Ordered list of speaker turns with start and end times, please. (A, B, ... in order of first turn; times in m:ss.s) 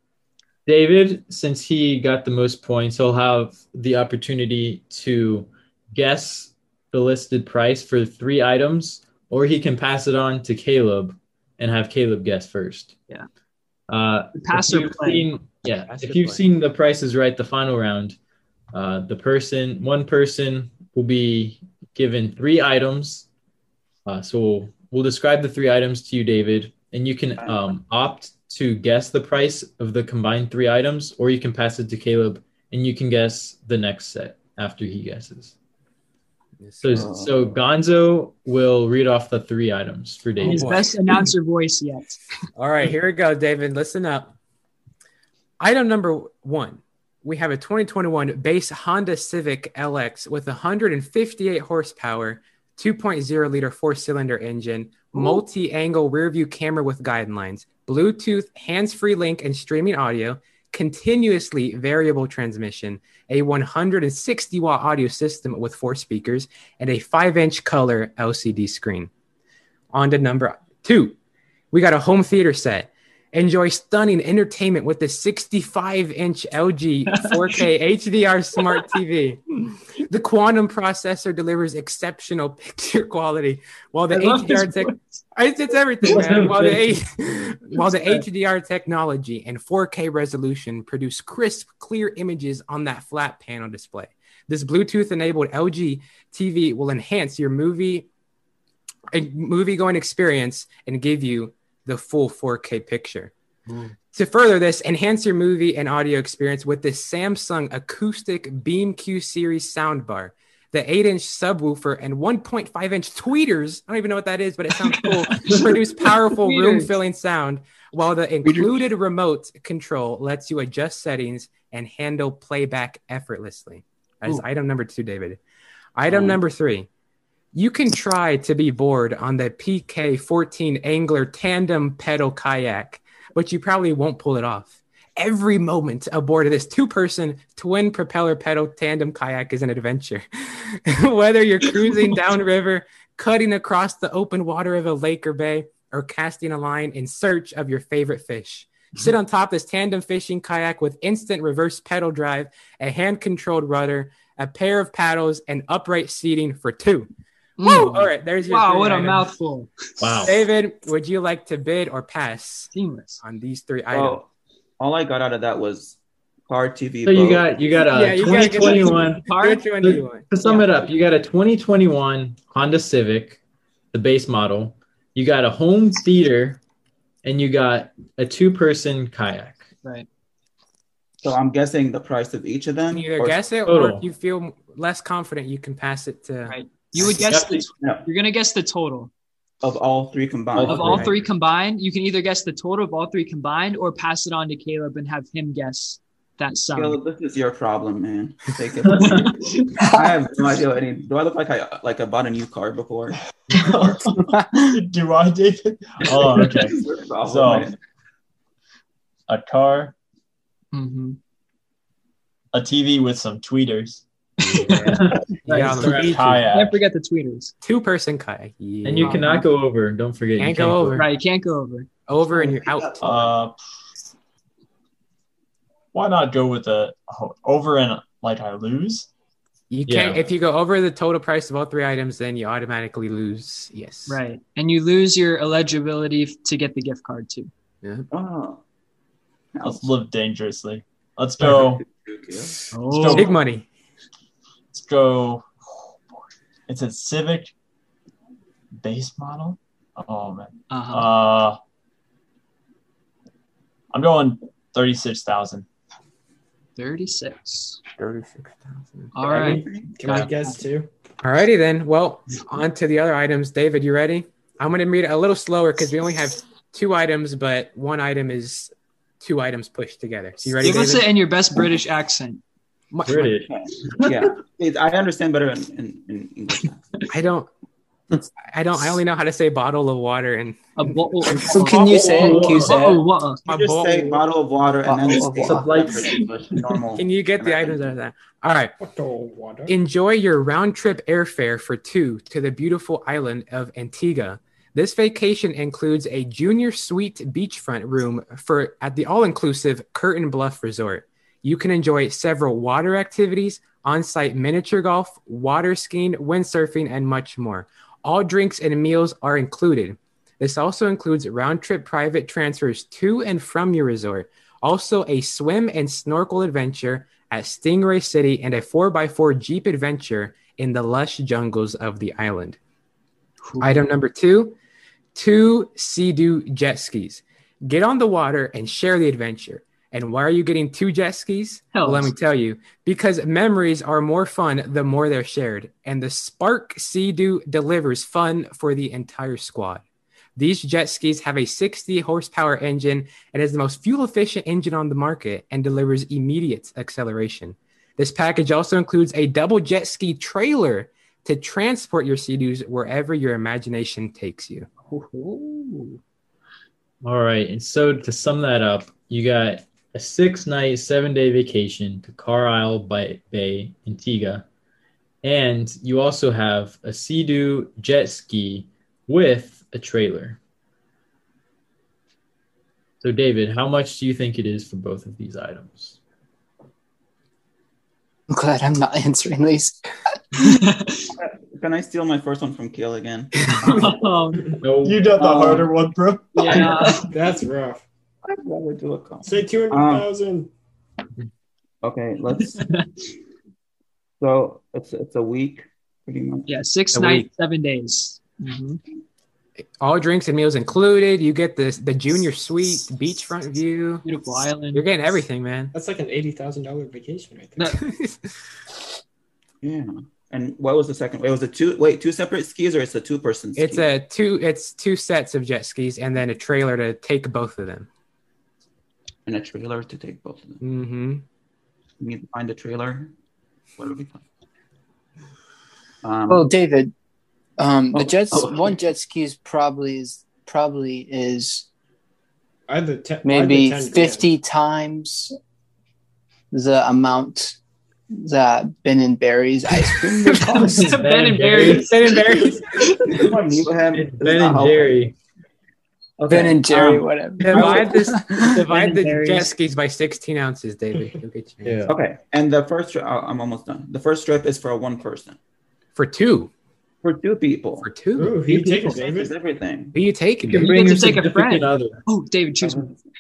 0:00.7-0:13.0 A
0:13.9-0:18.2 A
0:14.3-0:15.3 B
0:15.9-0:16.4 C
0:18.7-0:23.3 A
0:24.1-0:35.5 A
0:27.4-0:27.7 D
0:36.6-0:37.0 C
0:36.8-0:40.9 A
0:36.9-0:37.6 D
0:40.4-0:42.2 B
0:40.5-0:41.0 C
0:42.6-0:44.3 C
0:45.6-1:09.1 C
1:09.9-1:11.2 C
1:11.7-1:38.1 C
1:17.1-1:17.6 B
1:24.1-1:25.0 B
1:26.0-1:26.5 B
1:26.0-1:27.0 A
1:27.8-1:28.2 B
1:39.1-1:43.3 C
1:44.1-2:05.4 C
1:54.8-1:56.9 B
1:58.4-1:58.7 B
2:06.0-2:06.9 C
2:06.1-2:06.4 D
2:07.5-2:37.1 C
2:37.6-2:40.1 B
2:37.6-2:39.3 C
2:40.0-2:40.4 A
2:40.2-2:44.2 C
2:42.7-2:43.2 B
2:43.9-2:44.3 D
2:44.8-2:46.0 D
2:46.5-2:47.5 D
2:47.0-2:49.3 A
2:47.8-2:50.7 B
2:47.9-2:50.3 C
2:49.8-2:53.4 A
2:53.9-2:56.6 A
2:57.2-2:59.7 A
3:01.2-3:03.4 D
3:02.9-3:06.6 C
3:03.6-3:04.1 A
3:06.5-3:09.1 B
3:07.2-3:07.7 A
3:07.8-3:08.1 D
3:09.6-3:11.1 D
3:10.5-3:11.1 A
3:10.7-3:17.0 B
3:10.8-3:11.1 C
3:16.7-3:23.2 D
3:19.0-3:19.7 B
3:19.8-3:20.1 E
3:23.5-3:24.1 F
3:24.1-3:24.8 E
3:24.7-3:27.7 F
3:26.3-3:27.8 D
3:29.3-3:30.0 F
3:30.7-3:31.2 B
3:32.5-3:34.0 F
3:34.4-3:36.5 C
3:34.4-3:37.5 B
3:34.7-3:36.4 A
3:35.8-3:36.8 F
3:37.6-3:39.4 C
3:38.8-3:41.1 A
3:39.0-3:39.4 B
3:40.4-3:41.1 C
3:41.0-3:41.9 B
3:42.1-3:43.2 C
3:42.3-3:43.3 D
3:43.0-3:43.6 F
3:45.9-3:49.1 F
3:49.7-3:54.2 C
3:49.9-3:50.2 A
3:54.1-3:57.5 B
3:57.8-3:58.1 C
3:58.1-3:58.6 D
3:59.6-3:59.9 D
3:59.6-4:01.8 F
4:01.4-4:02.7 D
4:02.7-4:03.3 B
4:02.9-4:03.3 F
4:03.1-4:03.7 C
4:04.7-4:05.5 F
4:06.7-4:07.5 F
4:08.8-4:11.6 F
4:10.7-4:11.1 B
4:13.9-4:15.7 F
4:16.8-4:17.8 B
4:18.0-4:19.1 C
4:19.1-4:20.6 B
4:19.2-4:19.9 D
4:19.3-4:20.9 G
4:21.2-4:31.1 C
4:30.6-4:32.4 B
4:32.9-4:33.4 C
4:33.1-4:34.3 A
4:33.4-4:37.0 D
4:37.1-4:37.5 C
4:38.5-4:41.4 C
4:40.8-4:43.4 B
4:41.3-4:43.0 E
4:41.9-4:42.8 A
4:43.5-4:44.2 C
4:43.5-4:47.9 D
4:44.8-4:45.7 E
4:45.4-4:46.2 A
4:46.0-4:46.7 B
4:47.0-4:48.7 C
4:48.8-4:49.7 G
4:49.7-5:22.6 C
5:23.4-5:23.8 B
5:23.6-5:24.6 C
5:25.2-5:39.8 C
5:31.7-5:32.1 B
5:40.4-5:54.7 C
5:54.9-5:56.0 B
5:57.0-6:04.4 A
6:05.2-6:10.4 A
6:13.0-6:16.0 A
6:18.3-6:19.8 E
6:20.4-6:21.2 B
6:21.2-6:24.2 D
6:23.6-6:24.5 B
6:24.6-6:25.2 A
6:24.8-6:27.0 F
6:25.2-6:25.7 D
6:26.3-6:27.1 B
6:26.4-6:27.1 D
6:27.0-6:27.8 G
6:28.2-6:30.1 D
6:29.2-6:30.5 G
6:31.8-6:32.8 D
6:32.6-6:33.0 B
6:34.2-6:36.6 D
6:36.5-6:38.8 B
6:36.9-6:37.3 C
6:39.8-6:44.1 C
6:44.0-6:44.9 B
6:44.7-6:45.7 C
6:45.7-6:47.8 G
6:47.8-6:48.2 C
6:49.6-6:53.9 D
6:53.6-6:57.9 C
6:59.3-7:00.6 D
7:00.6-7:01.2 C
7:02.0-7:03.1 D
7:03.8-7:04.2 D
7:06.0-7:06.5 D
7:06.3-7:06.9 E
7:07.6-7:11.7 E
7:07.9-7:08.8 D
7:12.7-7:14.3 G
7:13.2-7:15.3 E
7:16.5-7:17.6 E
7:18.1-7:20.7 E
7:20.4-7:23.4 B
7:20.5-7:22.1 A
7:21.7-7:22.8 C
7:23.1-7:25.0 D
7:23.9-7:25.2 A
7:26.2-7:27.8 D
7:26.3-7:28.6 E
7:27.4-7:31.9 C
7:27.5-7:27.8 B
7:28.4-7:29.5 B
7:31.6-7:31.9 A
7:31.9-7:35.4 D
7:36.0-7:36.5 C
7:37.0-7:37.9 D
7:37.8-7:38.3 C
7:38.2-7:39.4 G
7:38.5-7:39.0 B
7:38.9-7:40.0 D
7:39.9-7:40.7 C
7:40.5-7:42.0 A
7:40.5-7:43.0 B
7:42.6-7:43.0 D